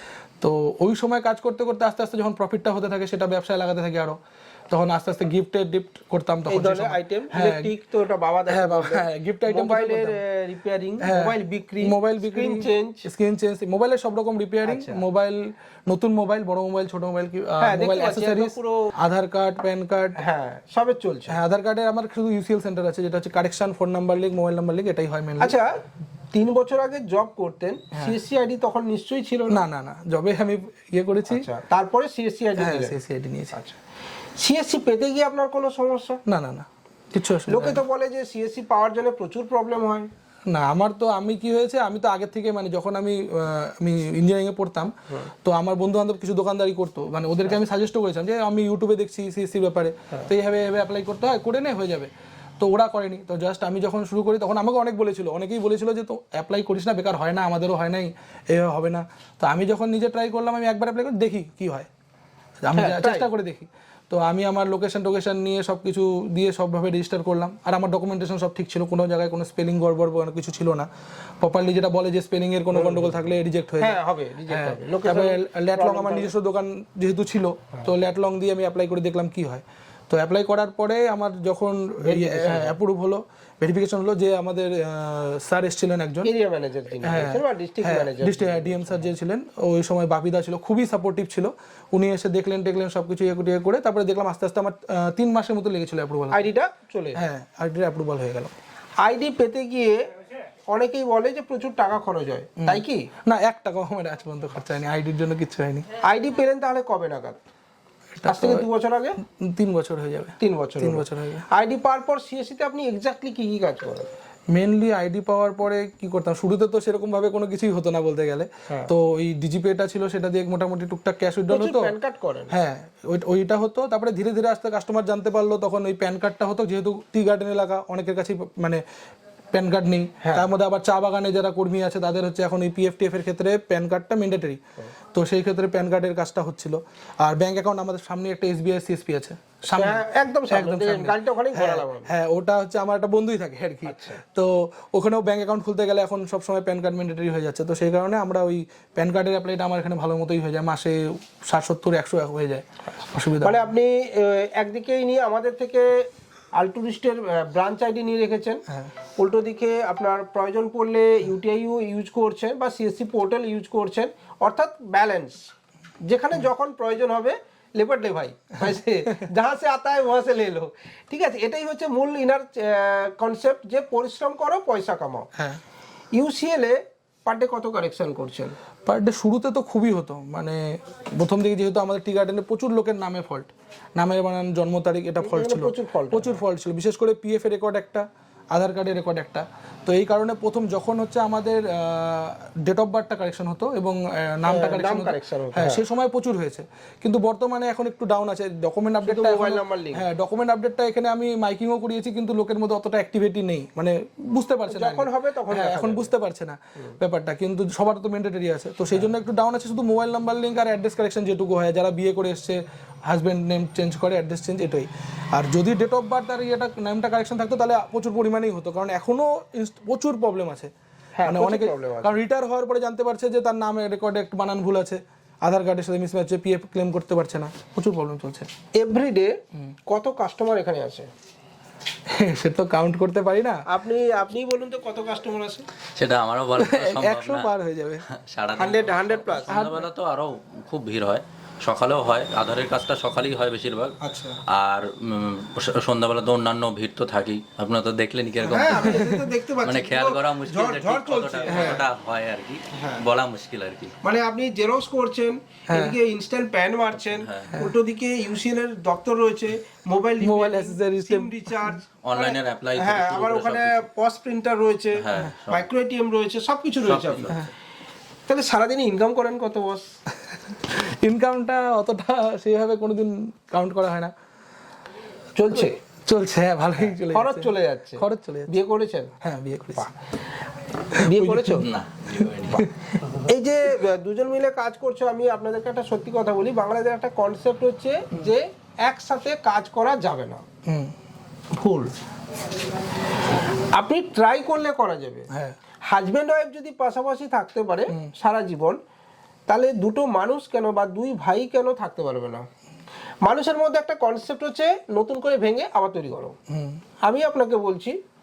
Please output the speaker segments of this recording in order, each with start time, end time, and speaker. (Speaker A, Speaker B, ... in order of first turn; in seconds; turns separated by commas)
Speaker A: 0.4-4.2, Speaker A: 4.7-7.7, Speaker B: 6.5-13.1, Speaker A: 8.5-10.2, Speaker A: 11.0-20.2, Speaker B: 14.6-15.0, Speaker B: 17.6-18.9, Speaker B: 20.2-21.4, Speaker A: 21.3-25.5, Speaker B: 25.4-25.7, Speaker B: 26.3-29.6, Speaker A: 29.5-31.5, Speaker B: 31.3-33.0, Speaker A: 32.6-33.5, Speaker B: 33.5-33.8, Speaker B: 34.4-36.2, Speaker A: 36.3-37.8, Speaker B: 37.5-40.1, Speaker A: 40.5-44.9, Speaker A: 45.4-61.9, Speaker A: 62.6-70.9, Speaker B: 62.7-63.3, Speaker A: 71.4-74.0, Speaker B: 72.7-73.1, Speaker B: 73.8-76.3, Speaker A: 74.5-86.3, Speaker B: 82.0-82.8, Speaker B: 86.2-89.1, Speaker A: 87.0-96.5, Speaker B: 96.3-97.2, Speaker A: 97.2-98.5, Speaker B: 99.0-100.0, Speaker B: 100.7-103.1, Speaker A: 102.6-105.9, Speaker B: 106.0-107.4, Speaker A: 108.2-108.7, Speaker B: 108.2-109.2, Speaker A: 109.2-111.4, Speaker B: 110.4-114.1, Speaker A: 114.5-121.9, Speaker B: 121.5-122.5, Speaker A: 122.5-128.8, Speaker A: 129.5-134.6, Speaker B: 130.2-130.4, Speaker A: 135.1-153.6, Speaker B: 139.7-142.1, Speaker B: 143.8-144.2, Speaker B: 153.4-155.9, Speaker B: 156.5-158.6, Speaker B: 159.2-165.4, Speaker B: 166.1-175.3, Speaker B: 176.1-178.5, Speaker A: 178.8-220.7, Speaker B: 185.2-186.4, Speaker B: 194.5-195.8, Speaker B: 199.0-200.0, Speaker B: 204.7-206.1, Speaker B: 221.2-222.2, Speaker A: 221.2-228.5, Speaker B: 228.8-229.3, Speaker B: 229.9-231.1, Speaker A: 232.1-233.6, Speaker B: 233.7-235.7, Speaker C: 235.9-237.5, Speaker A: 236.6-238.0, Speaker C: 238.1-243.9, Speaker B: 238.6-239.5, Speaker A: 239.5-239.9, Speaker B: 244.0-244.4, Speaker C: 244.5-249.1, Speaker B: 248.5-251.8, Speaker A: 248.6-249.2, Speaker C: 249.6-253.9, Speaker A: 251.5-251.8, Speaker B: 252.7-253.0, Speaker B: 254.0-267.3, Speaker A: 255.7-256.0, Speaker C: 257.0-257.5, Speaker A: 260.2-261.7, Speaker C: 262.0-263.9, Speaker C: 265.0-265.7, Speaker C: 266.8-267.4, Speaker B: 268.3-269.8, Speaker A: 270.3-274.1, Speaker B: 275.4-275.8, Speaker A: 276.1-278.6, Speaker B: 276.9-279.1, Speaker A: 279.2-279.9, Speaker B: 280.9-281.7, Speaker A: 280.9-281.6, Speaker C: 281.6-282.7, Speaker A: 282.5-283.0, Speaker B: 283.1-290.4, Speaker A: 290.7-290.9, Speaker B: 291.5-291.9, Speaker B: 293.4-295.3, Speaker B: 295.9-298.8, Speaker B: 299.5-302.4, Speaker B: 303.2-306.4, Speaker A: 306.5-306.8, Speaker B: 307.0-308.0